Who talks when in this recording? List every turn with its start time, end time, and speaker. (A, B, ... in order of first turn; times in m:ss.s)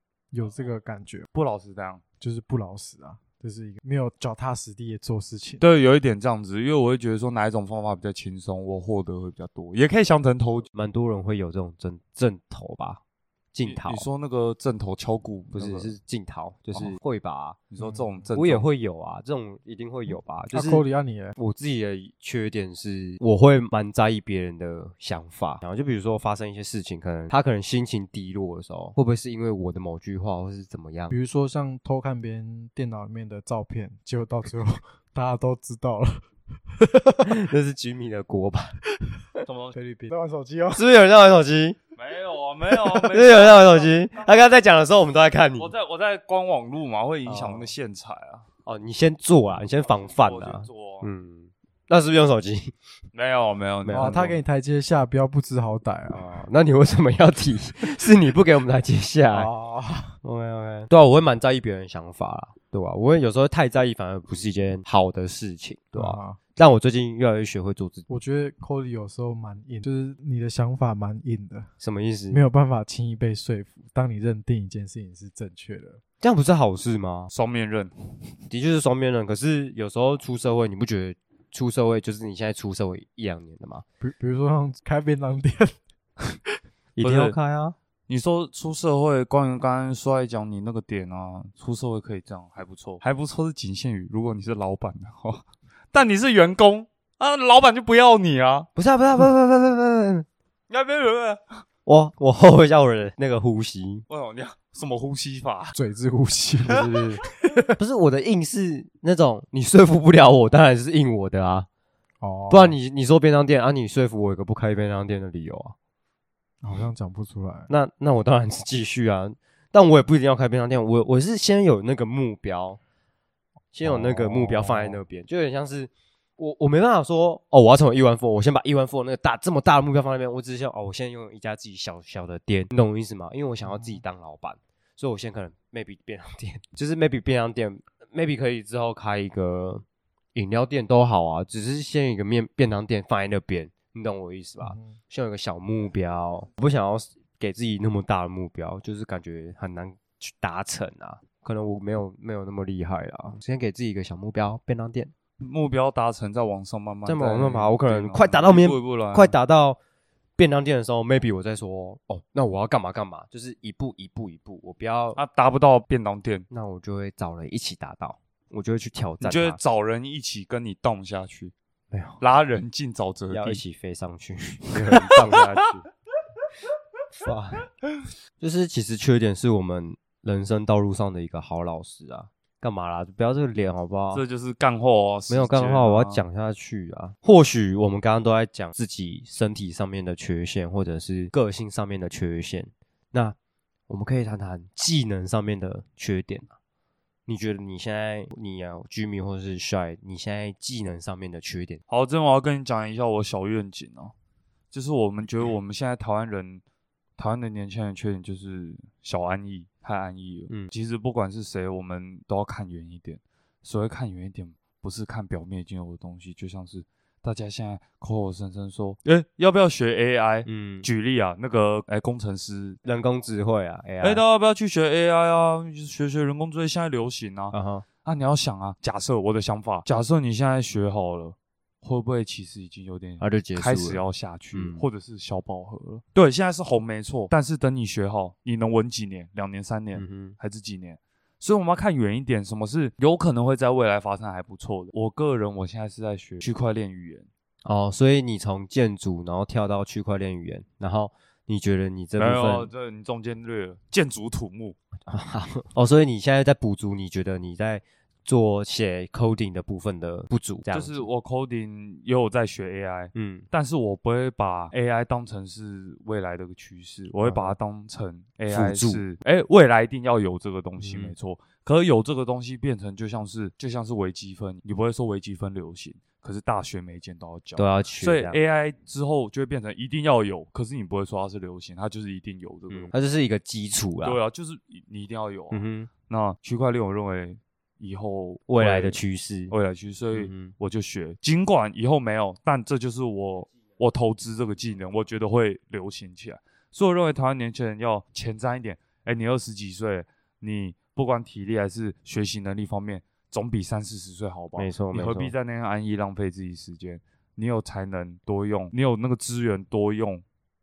0:00.3-0:01.3 A
0:01.3-0:02.0 B
0:02.2-0:05.6 A
0:05.6-0:10.7 B
0:10.7-0:13.0 C
0:13.5-0:14.1 C
0:13.6-0:15.9 B
0:15.5-0:17.6 C
0:16.7-0:17.0 B
0:17.7-0:18.7 B
0:17.8-0:18.1 A
0:18.4-0:20.8 C
0:20.5-0:21.4 A
0:21.4-0:31.2 C
0:31.1-0:37.4 A
0:37.2-0:38.8 C
0:39.4-0:39.8 B
0:39.7-0:40.9 A
0:40.7-0:41.8 C
0:42.0-0:44.1 B
0:42.9-0:45.7 C
0:45.6-0:48.4 B
0:47.3-0:47.7 C
0:48.7-0:52.7 C
0:49.9-0:51.1 B
0:53.1-0:54.4 B
0:53.8-0:54.2 C
0:53.9-0:56.4 A
0:56.1-0:59.5 C
0:59.3-1:00.2 A
1:00.2-1:08.1 C
1:05.9-1:06.4 A
1:08.1-1:11.7 A
1:11.8-1:12.4 C
1:12.3-1:16.0 A
1:16.2-1:17.3 C
1:17.3-1:17.9 B
1:18.5-1:23.8 C
1:24.0-1:25.8 A
1:27.0-1:27.8 C
1:27.0-1:27.4 B
1:28.1-1:38.7 B
1:38.8-1:40.3 C
1:40.7-1:41.6 B
1:41.9-1:44.0 C
1:44.1-1:45.8 B
1:45.8-1:46.9 A
1:46.7-1:51.7 C
1:47.4-1:47.8 A
1:52.2-1:52.8 A
1:52.5-1:55.8 C
1:56.6-1:57.7 A
1:57.7-2:02.8 C
2:03.7-2:19.8 C
2:03.8-2:05.0 A
2:13.7-2:14.0 A
2:20.4-2:35.1 C
2:24.6-2:25.0 A
2:35.4-2:39.4 B
2:37.0-2:39.8 C
2:40.4-2:45.2 C
2:45.2-2:46.4 B
2:46.5-2:49.6 C
2:49.2-2:51.5 B
2:51.9-2:52.2 C
2:52.2-2:53.6 B
2:53.3-2:55.8 C
2:54.7-2:55.7 B
2:57.2-2:57.7 C
2:58.4-3:04.2 C
3:04.1-3:06.2 B
3:05.3-3:13.4 C
3:13.9-3:16.5 C
3:17.3-3:21.8 C
3:21.9-3:24.1 B
3:24.7-3:26.6 B
3:27.2-3:42.8 B
3:40.5-3:40.9 C
3:42.8-3:44.2 C
3:44.0-4:07.3 B
3:47.5-3:47.9 C
3:53.2-3:54.9 C
3:59.9-4:00.4 C
4:07.6-4:12.7 C
4:12.2-4:14.8 B
4:15.1-4:21.0 C
4:20.7-4:42.9 B
4:23.2-4:23.5 C
4:27.2-4:27.6 C
4:28.5-4:29.0 C
4:30.8-4:31.1 C
4:37.6-4:38.4 C
4:42.7-4:44.2 C
4:44.0-4:49.0 B
4:45.5-4:45.9 C
4:48.5-4:49.5 C
4:49.5-5:10.2 B
4:50.1-4:50.5 C
5:04.6-5:05.3 C